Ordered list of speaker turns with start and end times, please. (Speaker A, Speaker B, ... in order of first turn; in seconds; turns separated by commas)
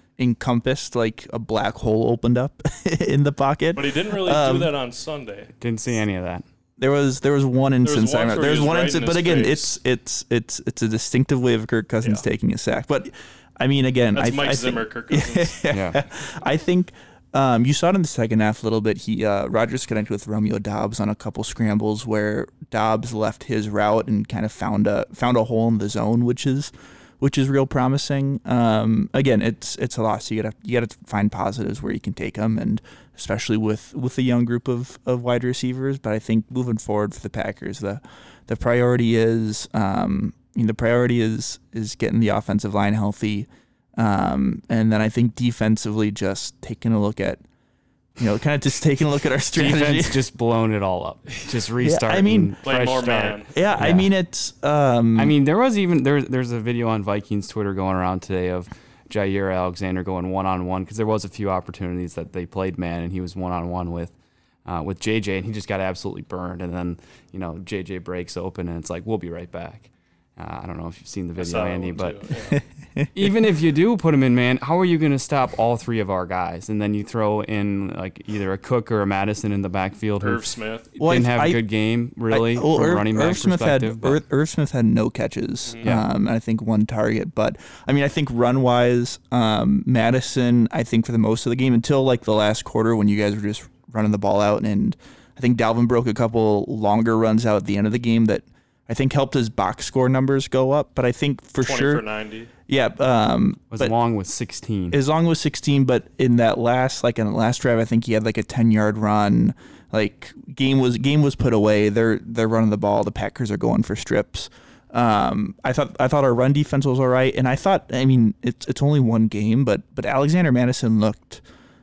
Speaker A: 0.2-4.7, Speaker B: 3.8-5.5, Speaker C: 5.6-6.4, Speaker A: 6.8-47.4, Speaker B: 7.8-9.8, Speaker B: 14.1-15.7, Speaker A: 48.2-50.2, Speaker C: 49.5-54.1, Speaker A: 51.8-52.5, Speaker B: 52.6-53.5, Speaker A: 53.5-55.3, Speaker C: 55.1-64.1, Speaker C: 64.7-72.3, Speaker B: 71.4-72.6, Speaker A: 72.5-73.3, Speaker C: 73.1-84.2, Speaker B: 80.2-80.9, Speaker A: 81.0-81.6, Speaker A: 82.3-102.0, Speaker B: 101.6-102.5, Speaker A: 102.7-103.9, Speaker C: 103.7-105.0, Speaker A: 104.9-121.4